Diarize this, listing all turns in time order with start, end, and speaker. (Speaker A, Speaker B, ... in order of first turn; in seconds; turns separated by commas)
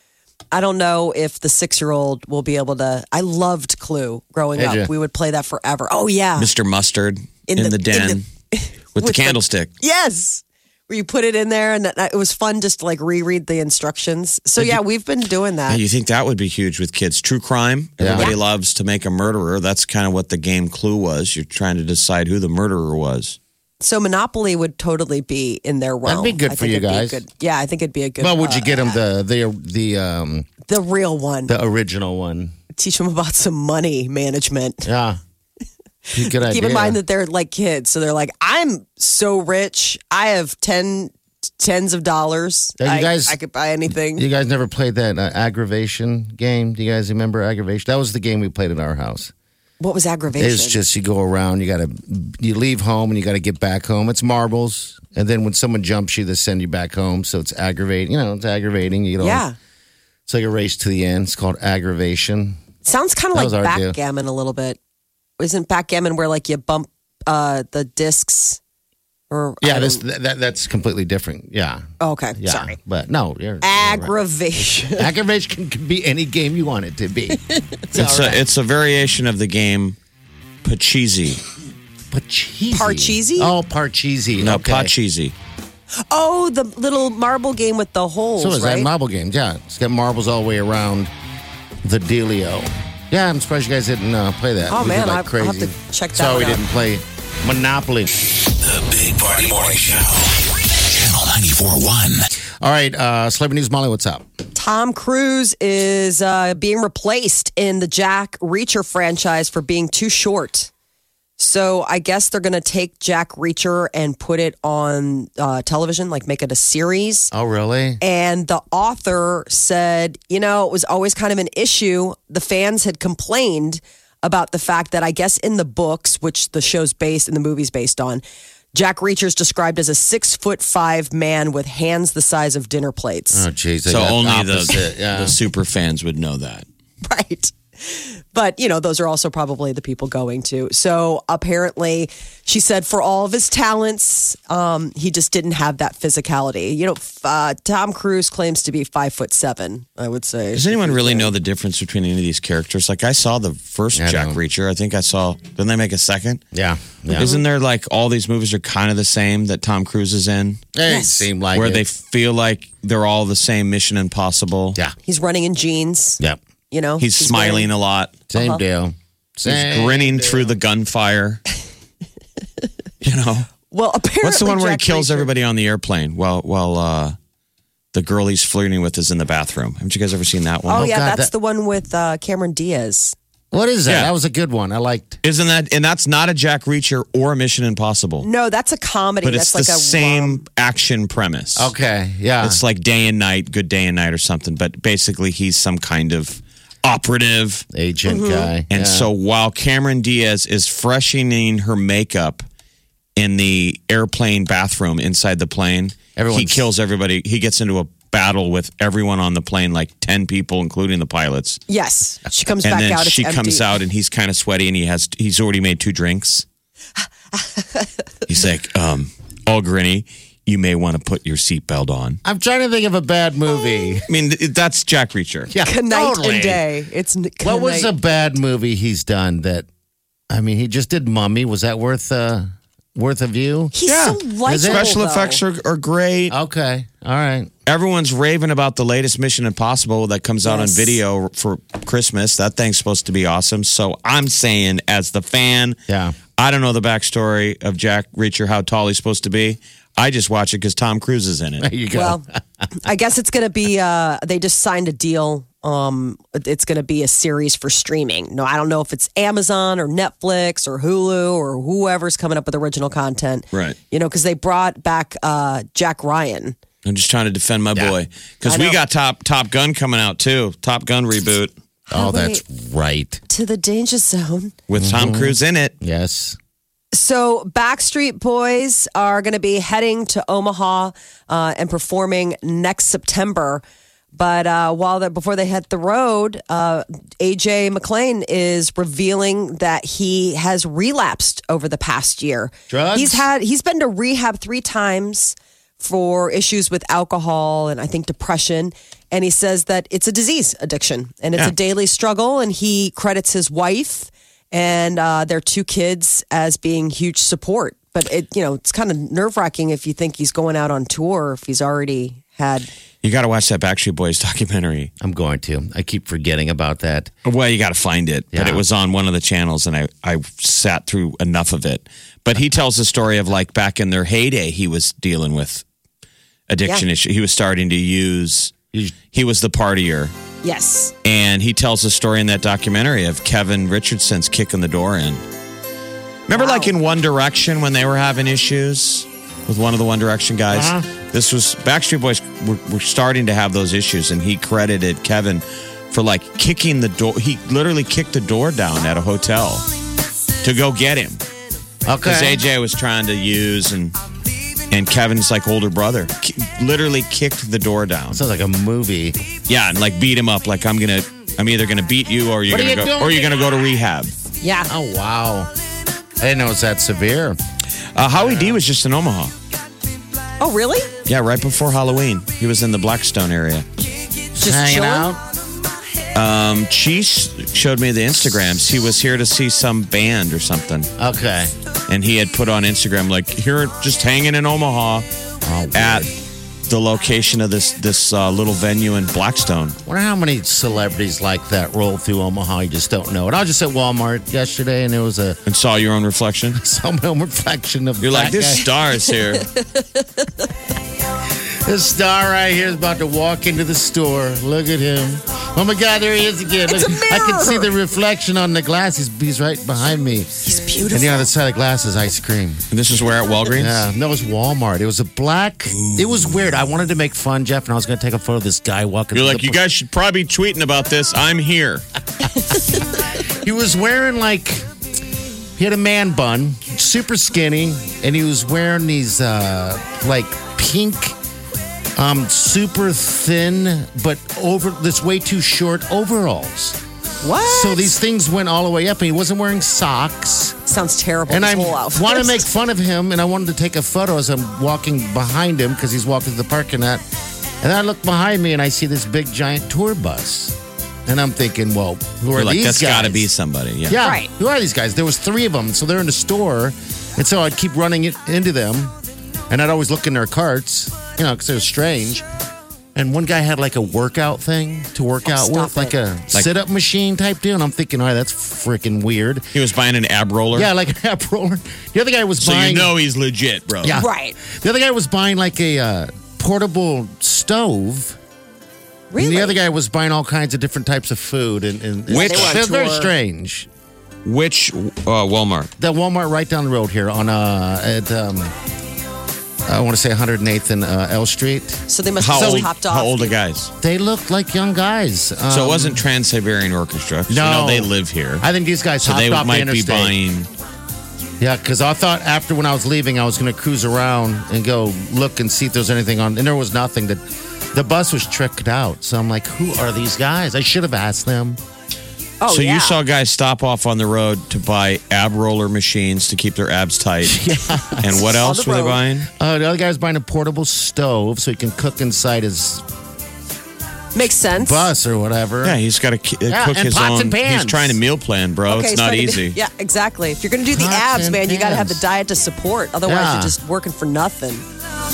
Speaker A: 0.5-6.5, Speaker B: 4.6-4.9, Speaker C: 6.4-8.3, Speaker A: 7.5-15.8, Speaker C: 9.0-9.7, Speaker C: 15.7-23.4, Speaker B: 18.0-18.3, Speaker A: 23.8-29.0, Speaker B: 26.1-27.2, Speaker B: 28.2-30.5, Speaker A: 30.7-31.5, Speaker B: 31.5-32.5, Speaker A: 32.8-34.9, Speaker B: 34.8-35.2, Speaker A: 36.1-44.2, Speaker B: 36.1-37.0, Speaker B: 42.8-43.4, Speaker B: 44.2-49.3, Speaker A: 49.8-50.8, Speaker B: 50.4-59.4, Speaker A: 59.2-59.5, Speaker B: 60.3-62.6, Speaker A: 62.8-64.8, Speaker B: 63.3-64.0, Speaker A: 65.4-68.6, Speaker A: 69.3-70.0, Speaker B: 69.6-71.8, Speaker A: 72.0-72.8, Speaker B: 72.4-74.1, Speaker A: 73.6-75.1, Speaker B: 74.9-78.4, Speaker A: 77.5-77.8, Speaker C: 77.9-80.0, Speaker C: 80.6-81.4, Speaker B: 82.1-84.9, Speaker A: 82.7-83.5, Speaker C: 84.4-85.3, Speaker A: 86.1-88.9, Speaker B: 88.4-91.1, Speaker B: 91.8-98.2, Speaker A: 94.7-96.7, Speaker D: 98.6-102.3, Speaker B: 102.6-104.2, Speaker A: 104.5-110.7, Speaker A: 111.4-117.3, Speaker B: 117.3-118.0, Speaker A: 118.0-128.2, Speaker A: 128.7-133.5, Speaker B: 133.3-135.4, Speaker C: 133.9-136.7, Speaker A: 137.0-151.3, Speaker C: 150.5-156.4, Speaker B: 154.0-154.4, Speaker B: 156.5-157.3, Speaker C: 157.1-160.7, Speaker B: 160.8-161.8, Speaker A: 160.9-161.3, Speaker C: 161.5-164.8, Speaker A: 165.1-166.2, Speaker A: 166.7-167.7, Speaker C: 167.0-168.2, Speaker B: 168.3-170.6, Speaker A: 168.3-168.6, Speaker C: 169.4-171.4, Speaker C: 173.0-173.5, Speaker A: 173.7-175.3, Speaker C: 174.2-177.2, Speaker C: 177.9-180.9, Speaker A: 180.7-183.2, Speaker B: 180.7-181.3, Speaker B: 183.5-185.2, Speaker C: 183.9-184.1, Speaker C: 185.2-188.3, Speaker A: 188.2-190.4, Speaker C: 189.2-191.7, Speaker B: 191.6-192.6, Speaker C: 192.4-197.7, Speaker B: 197.7-199.1, Speaker A: 198.1-198.5, Speaker C: 198.7-202.4, Speaker C: 203.2-211.6, Speaker B: 206.2-206.7, Speaker A: 211.7-213.6, Speaker C: 212.6-216.4, Speaker A: 217.6-217.9, Speaker C: 218.3-222.2, Speaker B: 222.2-224.1, Speaker C: 224.1-225.5, Speaker B: 225.5-226.7, Speaker A: 225.6-227.9, Speaker B: 227.4-229.7, Speaker B: 230.3-233.7, Speaker A: 233.7-235.4, Speaker C: 233.8-236.3, Speaker B: 234.4-234.9, Speaker B: 236.3-237.5, Speaker C: 237.7-245.8, Speaker A: 240.4-241.0, Speaker B: 245.9-246.2, Speaker C: 246.4-251.7, Speaker B: 251.6-252.7, Speaker A: 251.9-266.6, Speaker C: 266.8-271.5, Speaker A: 268.4-268.8, Speaker B: 271.9-273.2, Speaker A: 271.9-272.4, Speaker A: 273.3-274.6, Speaker C: 274.7-275.7, Speaker B: 274.8-276.4, Speaker A: 276.9-283.6, Speaker A: 284.1-312.7, Speaker B: 292.7-293.2, Speaker C: 313.0-314.9, Speaker B: 315.0-317.1, Speaker C: 317.2-325.6, Speaker B: 318.3-318.6, Speaker C: 326.5-328.5, Speaker C: 329.1-330.1, Speaker A: 330.4-330.9, Speaker C: 331.0-335.2, Speaker C: 336.3-349.7, Speaker A: 336.3-336.7, Speaker B: 340.5-340.9, Speaker C: 350.4-351.2, Speaker B: 351.9-352.4, Speaker C: 352.0-353.9, Speaker C: 354.7-358.2, Speaker B: 358.1-359.2, Speaker C: 359.5-364.1, Speaker B: 362.5-363.4, Speaker A: 364.4-364.7, Speaker B: 364.7-365.5, Speaker B: 366.2-367.4, Speaker C: 367.9-369.3, Speaker B: 368.2-368.6, Speaker A: 370.4-370.9, Speaker C: 371.1-373.6, Speaker A: 374.4-375.1, Speaker B: 374.4-375.2, Speaker C: 376.1-380.9, Speaker B: 381.0-381.5, Speaker C: 381.9-385.1, Speaker B: 385.4-386.1, Speaker C: 385.7-386.1, Speaker C: 386.7-389.8, Speaker B: 389.9-395.4, Speaker C: 395.5-396.6, Speaker B: 396.5-398.7, Speaker C: 398.0-399.5, Speaker A: 399.6-400.3, Speaker B: 401.6-412.6, Speaker A: 406.7-407.7, Speaker A: 410.4-411.3, Speaker C: 412.7-413.8, Speaker B: 413.6-419.6, Speaker C: 419.1-421.8, Speaker B: 423.2-424.7, Speaker B: 425.6-431.2, Speaker B: 432.0-436.8, Speaker A: 437.2-437.9, Speaker B: 437.4-440.6, Speaker A: 440.7-442.4, Speaker B: 441.3-447.0, Speaker B: 447.6-453.3, Speaker C: 452.3-454.0, Speaker B: 453.9-458.9, Speaker A: 454.0-454.3, Speaker B: 459.5-462.2, Speaker B: 462.9-469.5, Speaker A: 465.3-465.9, Speaker C: 469.5-470.7, Speaker B: 470.5-472.9, Speaker C: 472.4-474.0, Speaker B: 473.8-478.2, Speaker A: 474.0-474.4, Speaker A: 479.1-479.6, Speaker B: 479.2-483.7, Speaker A: 482.1-483.1, Speaker C: 482.1-482.6, Speaker C: 484.2-485.7, Speaker B: 485.8-488.5, Speaker B: 489.6-491.9, Speaker A: 491.9-493.4, Speaker C: 492.2-493.7, Speaker B: 492.4-492.7, Speaker B: 493.8-496.0, Speaker C: 495.5-498.4, Speaker B: 497.3-500.2, Speaker C: 499.0-500.5, Speaker B: 501.4-507.2, Speaker B: 507.7-511.6, Speaker A: 512.4-513.0, Speaker C: 512.5-517.4, Speaker B: 517.2-518.2, Speaker C: 518.0-519.3, Speaker A: 518.2-519.0, Speaker B: 519.3-522.9, Speaker A: 524.1-524.9, Speaker B: 524.5-525.8, Speaker C: 525.6-529.6, Speaker B: 526.5-528.0, Speaker A: 528.7-534.6, Speaker B: 530.7-532.0, Speaker B: 533.0-533.6